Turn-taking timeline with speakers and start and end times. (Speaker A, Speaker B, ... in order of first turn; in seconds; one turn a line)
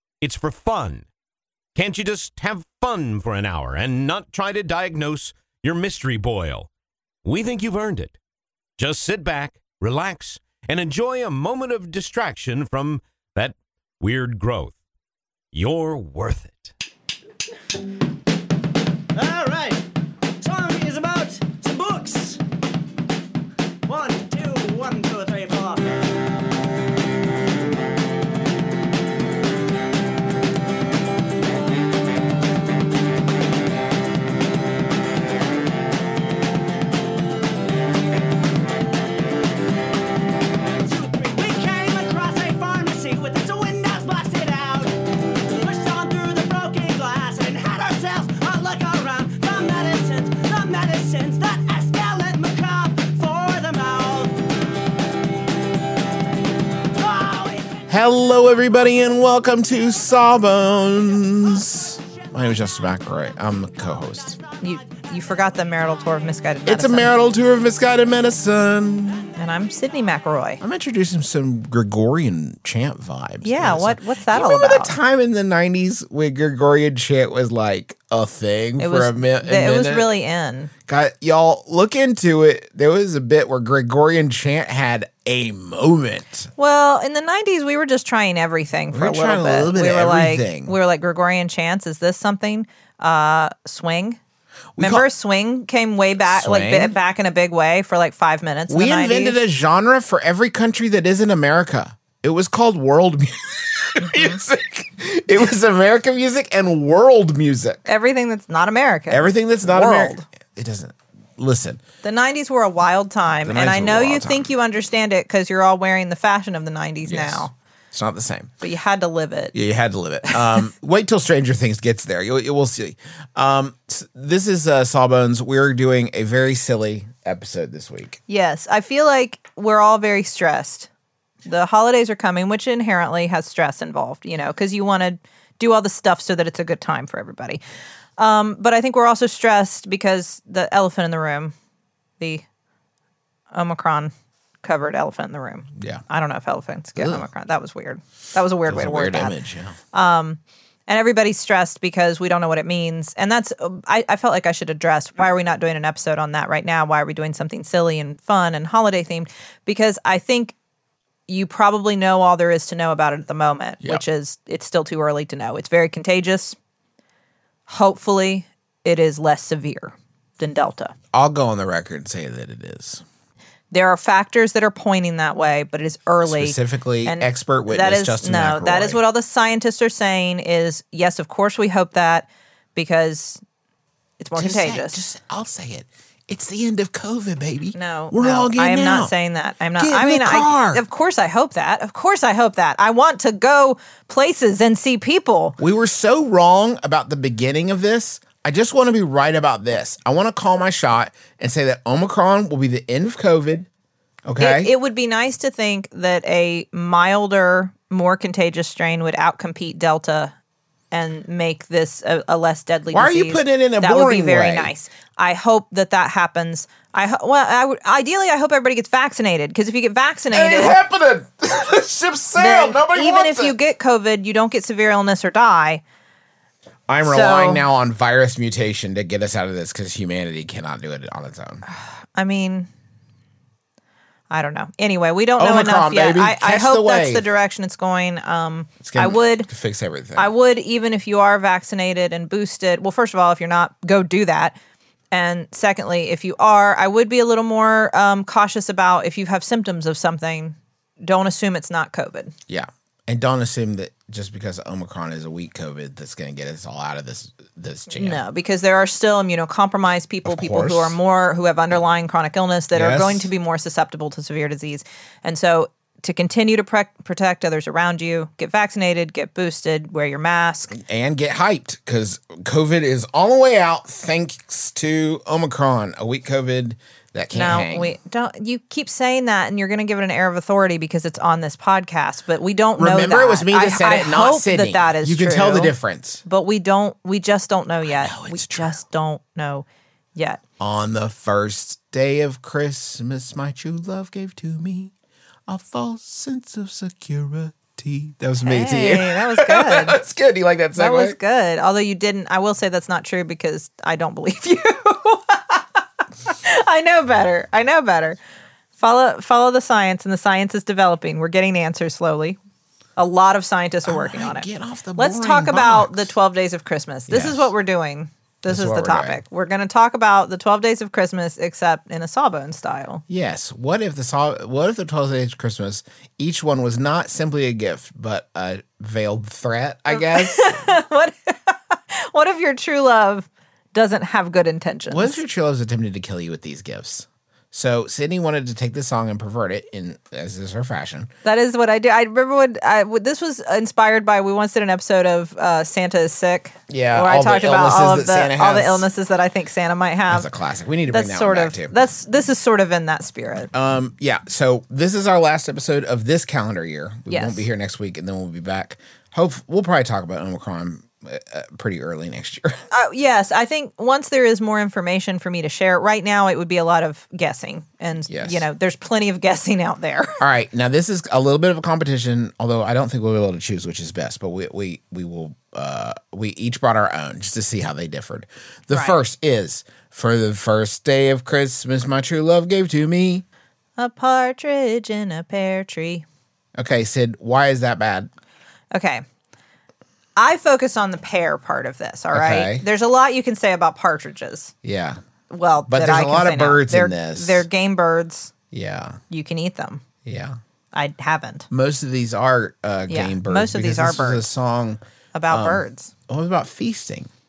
Speaker A: 0.2-1.1
Speaker A: 1.7-6.7
Speaker A: 7.2-8.1
Speaker A: 8.8-14.7
Speaker A: 15.5-16.7
Speaker B: 19.1-19.8
Speaker B: 20.4-22.4
Speaker B: 23.9-25.9
Speaker B: 40.8-45.0
Speaker B: 45.5-54.4
Speaker B: 56.9-57.8
Speaker C: 57.9-64.4
Speaker D: 64.6-67.2
Speaker C: 66.7-69.3
Speaker D: 69.3-70.6
Speaker C: 70.6-80.1
Speaker D: 73.4-75.0
Speaker D: 78.8-80.7
Speaker C: 80.9-86.5
Speaker D: 86.6-94.2
Speaker C: 88.9-90.8
Speaker C: 94.8-95.0
Speaker D: 94.8-99.4
Speaker C: 96.3-96.9
Speaker C: 98.7-107.8
Speaker D: 104.0-104.4
Speaker D: 107.8-110.2
Speaker C: 109.1-111.8
Speaker D: 112.0-117.5
Speaker C: 113.4-114.5
Speaker C: 117.0-118.5
Speaker D: 118.6-119.5
Speaker C: 119.5-128.2
Speaker D: 120.3-120.6
Speaker D: 128.3-130.9
Speaker D: 131.4-137.6
Speaker D: 138.2-141.5
Speaker D: 142.2-142.4
Speaker D: 143.5-144.1
Speaker D: 144.6-149.3
Speaker C: 145.8-146.0
Speaker C: 146.9-147.3
Speaker C: 148.7-149.8
Speaker D: 149.9-160.5
Speaker D: 161.3-166.6
Speaker D: 167.7-170.9
Speaker C: 171.1-173.0
Speaker D: 173.7-183.4
Speaker C: 176.2-179.0
Speaker D: 184.2-185.0
Speaker C: 184.3-189.1
Speaker D: 187.7-195.6
Speaker C: 189.8-190.8
Speaker C: 195.6-203.7
Speaker C: 204.2-204.7
Speaker D: 204.4-210.3
Speaker D: 210.9-220.8
Speaker C: 212.9-214.7
Speaker C: 220.3-223.6
Speaker D: 222.3-225.8
Speaker C: 226.9-231.6
Speaker D: 227.0-227.6
Speaker D: 231.7-232.7
Speaker D: 234.3-239.5
Speaker C: 235.4-237.3
Speaker C: 238.8-240.3
Speaker D: 240.2-244.6
Speaker D: 245.1-252.3
Speaker C: 252.5-258.2
Speaker D: 257.9-270.8
Speaker C: 260.2-261.0
Speaker C: 262.7-263.3
Speaker C: 270.7-277.9
Speaker D: 277.3-285.7
Speaker C: 282.8-286.2
Speaker D: 286.2-290.4
Speaker C: 287.9-288.8
Speaker C: 290.6-294.9
Speaker C: 295.5-301.2
Speaker D: 298.4-300.0
Speaker D: 300.7-308.2
Speaker D: 308.8-312.4
Speaker D: 313.0-323.0
Speaker C: 313.8-316.1
Speaker C: 317.1-317.5
Speaker C: 318.4-319.2
Speaker C: 323.1-330.6
Speaker D: 329.9-335.2
Speaker C: 334.9-341.1
Speaker D: 341.2-350.3
Speaker C: 346.7-348.9
Speaker C: 350.1-351.7
Speaker D: 350.9-353.5
Speaker C: 353.5-362.6
Speaker D: 357.1-357.4
Speaker D: 362.7-370.2
Speaker C: 368.1-368.4
Speaker C: 370.2-383.2
Speaker D: 378.7-379.0
Speaker D: 383.8-386.0
Speaker C: 386.6-388.1
Speaker D: 388.7-389.0
Speaker D: 390.2-394.5
Speaker C: 392.1-392.6
Speaker C: 394.6-395.0
Speaker D: 395.3-398.3
Speaker C: 395.7-397.4
Speaker C: 398.5-399.0
Speaker D: 399.1-399.8
Speaker C: 400.0-400.4
Speaker D: 400.7-401.5
Speaker C: 401.5-407.1
Speaker D: 402.9-404.3
Speaker D: 405.1-405.9